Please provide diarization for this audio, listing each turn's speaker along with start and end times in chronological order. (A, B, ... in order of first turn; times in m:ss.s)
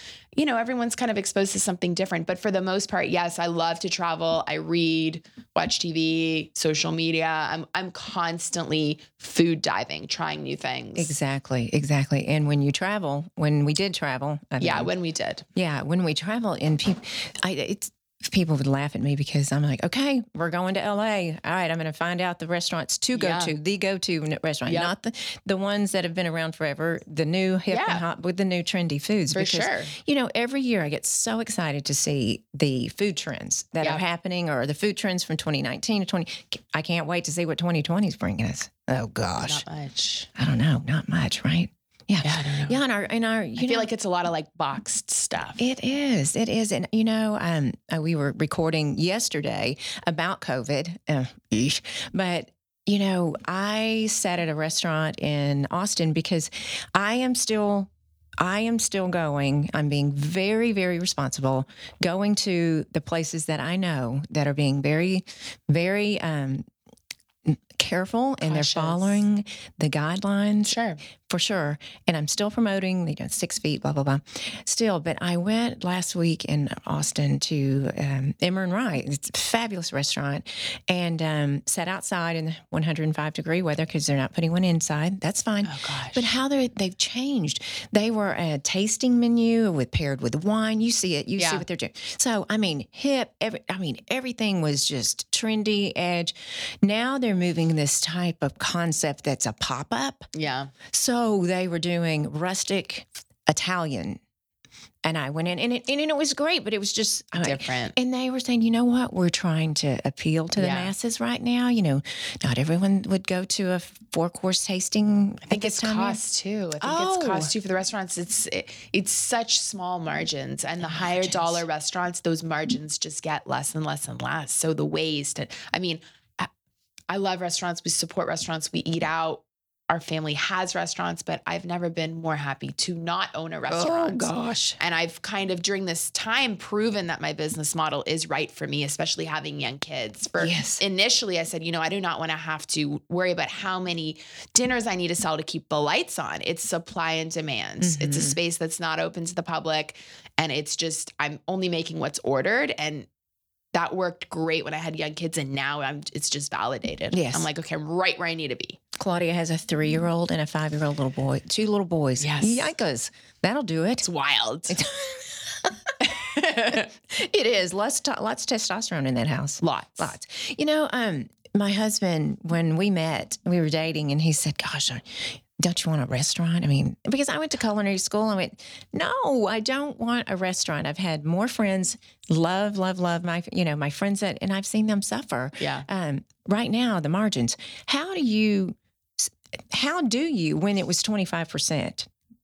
0:00.4-0:11.1 A
0:11.0-0:14.9 B
0:14.6-0:15.4 A
0:15.6-0:39.6 B
0:23.2-0:23.5 A
0:24.7-0:24.9 A
0:27.7-0:28.0 A
0:29.3-0:30.0 A
0:39.4-0:40.3 A
0:40.4-0:43.9 B
0:42.2-0:42.8 A
0:43.6-0:45.6 A
0:45.6-1:06.7 B
1:07.5-1:10.8 B
1:08.4-1:09.2 A
1:10.6-1:11.0 A
1:11.3-1:40.3 B
1:25.6-1:26.3 A
1:31.4-1:31.6 A
1:40.3-1:40.7 A
1:40.9-1:44.2 B
1:45.0-1:56.2 B
1:47.4-1:48.0 A
1:50.6-1:50.9 A
1:55.4-2:06.5 A
1:56.8-1:57.5 B
2:00.8-2:01.6 B
2:07.1-2:33.1 A
2:13.7-2:14.8 B
2:20.4-2:20.8 B
2:27.8-2:28.4 B
2:33.7-2:38.8 A
2:37.1-2:37.5 B
2:39.0-2:44.1 B
2:42.2-2:42.7 A
2:44.0-2:44.8 A
2:44.7-3:12.1 B
2:46.1-2:46.9 A
2:49.6-2:50.1 A
3:05.6-3:05.9 A